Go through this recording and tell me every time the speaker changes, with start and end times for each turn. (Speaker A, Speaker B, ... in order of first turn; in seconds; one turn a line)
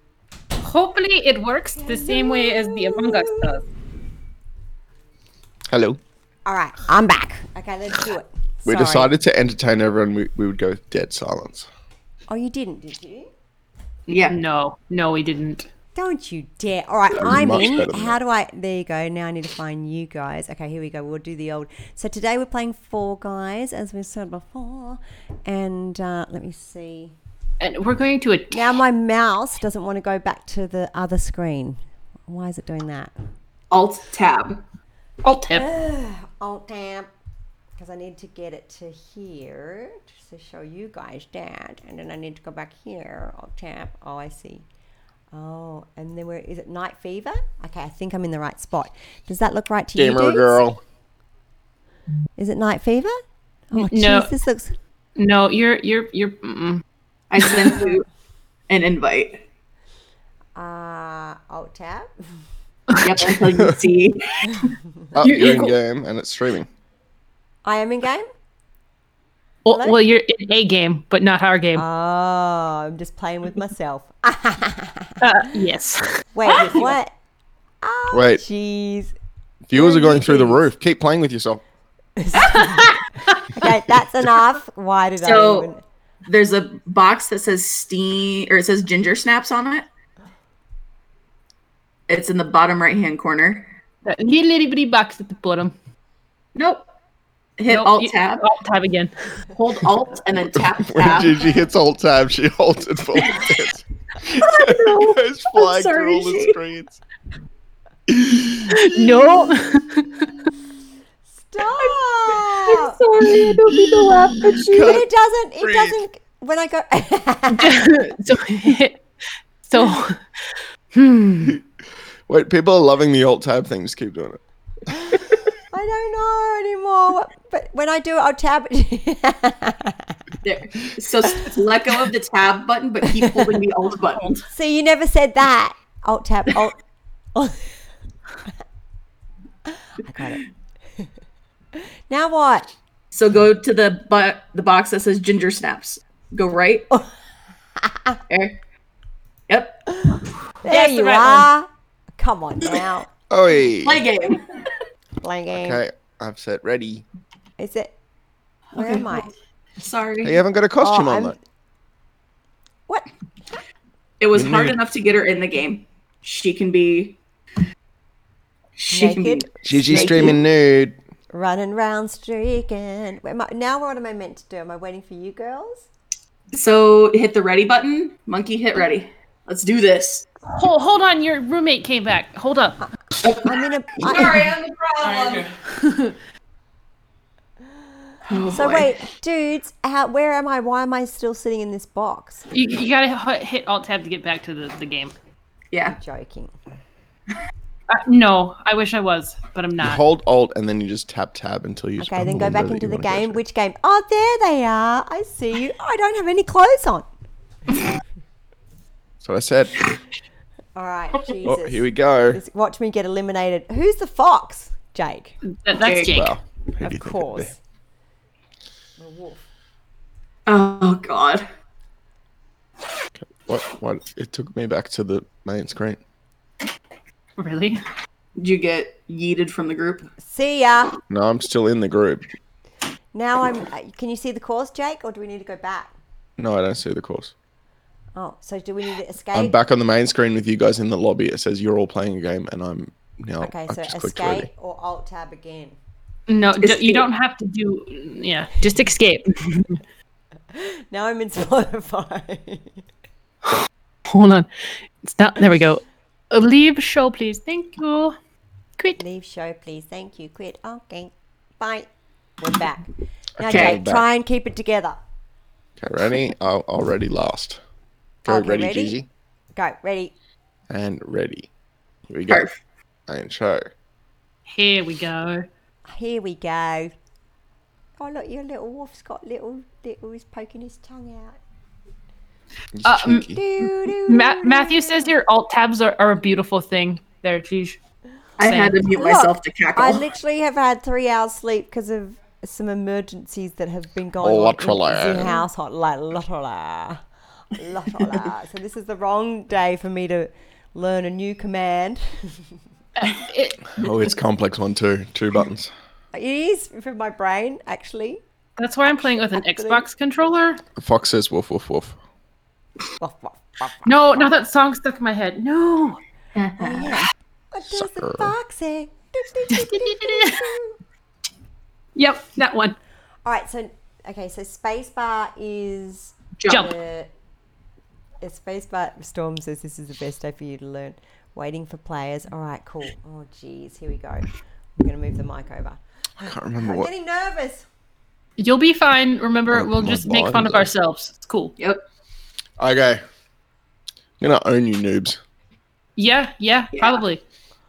Speaker A: 0.6-3.6
Speaker B: 1.8-3.6
Speaker C: 5.7-6.0
Speaker B: 6.5-9.1
Speaker C: 8.7-11.7
Speaker B: 12.3-13.3
Speaker D: 14.1-14.4
Speaker A: 14.3-15.7
Speaker B: 15.9-27.1
Speaker C: 17.1-18.2
Speaker A: 27.6-28.8
Speaker B: 28.5-33.1
Speaker D: 33.7-34.6
Speaker A: 35.2-35.6
Speaker B: 35.5-37.1
Speaker B: 37.8-44.6
Speaker B: 45.3-50.6
Speaker C: 50.0-50.8
Speaker B: 52.4-53.1
Speaker B: 53.7-54.8
Speaker A: 53.8-54.3
Speaker A: 55.2-56.8
Speaker D: 57.3-58.0
Speaker D: 58.7-59.4
Speaker B: 60.5-62.1
Speaker A: 62.9-63.4
Speaker D: 63.0-64.7
Speaker C: 65.2-66.7
Speaker A: 65.2-65.8
Speaker B: 67.7-68.3
Speaker A: 69.7-71.8
Speaker B: 69.7-70.0
Speaker B: 71.8-75.2
Speaker A: 75.2-76.0
Speaker B: 76.3-77.1
Speaker B: 77.8-79.1
Speaker C: 78.1-78.4
Speaker C: 79.7-81.6
Speaker B: 79.7-80.7
Speaker B: 82.2-85.8
Speaker D: 85.2-85.7
Speaker D: 86.3-89.9
Speaker D: 92.1-93.7
Speaker A: 94.0-95.8
Speaker D: 96.5-96.9
Speaker D: 97.6-98.5
Speaker A: 97.7-99.1
Speaker D: 99.5-101.5
Speaker C: 100.6-107.0
Speaker D: 104.4-106.6
Speaker C: 108.1-108.7
Speaker A: 108.7-110.1
Speaker B: 111.3-113.0
Speaker D: 112.7-114.7
Speaker C: 113.2-115.1
Speaker B: 114.7-117.9
Speaker C: 115.6-116.0
Speaker A: 117.5-119.0
Speaker A: 119.6-120.2
Speaker A: 121.0-121.6
Speaker C: 122.3-124.4
Speaker B: 125.7-130.2
Speaker D: 130.4-134.5
Speaker B: 134.5-136.8
Speaker B: 137.3-137.7
Speaker B: 140.0-140.4
Speaker B: 141.8-142.7
Speaker D: 143.1-146.9
Speaker B: 147.8-148.2
Speaker D: 148.3-148.6
Speaker D: 149.5-149.8
Speaker B: 150.1-153.1
Speaker A: 150.7-151.5
Speaker C: 153.3-154.0
Speaker D: 153.8-154.4
Speaker B: 155.2-155.8
Speaker C: 155.5-157.1
Speaker B: 157.6-157.9
Speaker D: 158.7-160.4
Speaker B: 158.8-159.3
Speaker C: 160.2-161.4
Speaker B: 160.8-161.4
Speaker B: 162.9-163.6
Speaker D: 164.2-167.2
Speaker C: 164.3-164.8
Speaker D: 168.8-170.4
Speaker B: 168.9-170.4
Speaker C: 169.6-171.0
Speaker B: 171.3-175.9
Speaker D: 176.5-180.2
Speaker A: 180.5-182.8
Speaker D: 183.2-185.5
Speaker B: 183.4-184.5
Speaker D: 188.3-188.9
Speaker B: 188.5-192.4
Speaker A: 192.5-195.2
Speaker D: 195.7-196.0
Speaker B: 195.8-196.5
Speaker A: 197.9-200.0
Speaker C: 199.8-203.4
Speaker B: 202.0-207.1
Speaker C: 209.2-209.8
Speaker B: 210.8-215.4
Speaker C: 211.4-212.4
Speaker A: 215.6-216.3
Speaker D: 215.8-216.1
Speaker C: 216.0-217.5
Speaker B: 216.8-217.6
Speaker B: 219.0-219.4
Speaker D: 220.5-221.4
Speaker C: 223.2-226.0
Speaker A: 227.4-227.8
Speaker D: 228.4-230.1
Speaker B: 230.1-231.0
Speaker C: 231.1-232.2
Speaker B: 233.1-235.9
Speaker C: 236.4-237.3
Speaker B: 238.2-239.6
Speaker C: 239.3-244.5
Speaker B: 243.4-245.8
Speaker A: 246.3-249.8
Speaker D: 246.6-247.1
Speaker B: 250.5-252.8
Speaker A: 254.1-254.5
Speaker A: 255.0-258.1
Speaker B: 259.0-261.9
Speaker B: 262.4-265.0
Speaker C: 263.4-264.0
Speaker D: 263.5-263.8
Speaker C: 265.8-267.6
Speaker C: 268.2-269.1
Speaker B: 268.3-269.0
Speaker B: 269.6-270.1
Speaker C: 270.7-271.5
Speaker C: 272.1-272.4
Speaker D: 272.3-272.5
Speaker C: 273.1-273.7
Speaker A: 274.5-275.4
Speaker B: 275.9-276.9
Speaker B: 278.0-281.4
Speaker C: 282.8-283.4
Speaker A: 282.9-283.2
Speaker B: 283.1-285.1
Speaker A: 284.1-287.8
Speaker D: 288.4-290.0
Speaker A: 288.5-288.8
Speaker B: 288.9-302.4
Speaker C: 294.2-295.4
Speaker A: 303.0-303.6
Speaker C: 303.8-305.7
Speaker B: 306.1-308.2
Speaker A: 308.6-310.6
Speaker B: 308.9-309.9
Speaker C: 310.8-312.0
Speaker B: 313.0-313.9
Speaker A: 313.9-316.0
Speaker D: 316.4-317.0
Speaker B: 316.6-320.8
Speaker C: 317.7-318.3
Speaker A: 319.5-320.4
Speaker A: 322.0-322.8
Speaker B: 323.2-327.1
Speaker D: 326.4-326.6
Speaker B: 328.2-337.7
Speaker C: 336.2-336.9
Speaker A: 338.4-341.5
Speaker C: 339.5-340.7
Speaker C: 342.6-343.0
Speaker C: 344.2-345.2
Speaker A: 346.0-347.2
Speaker D: 346.7-347.0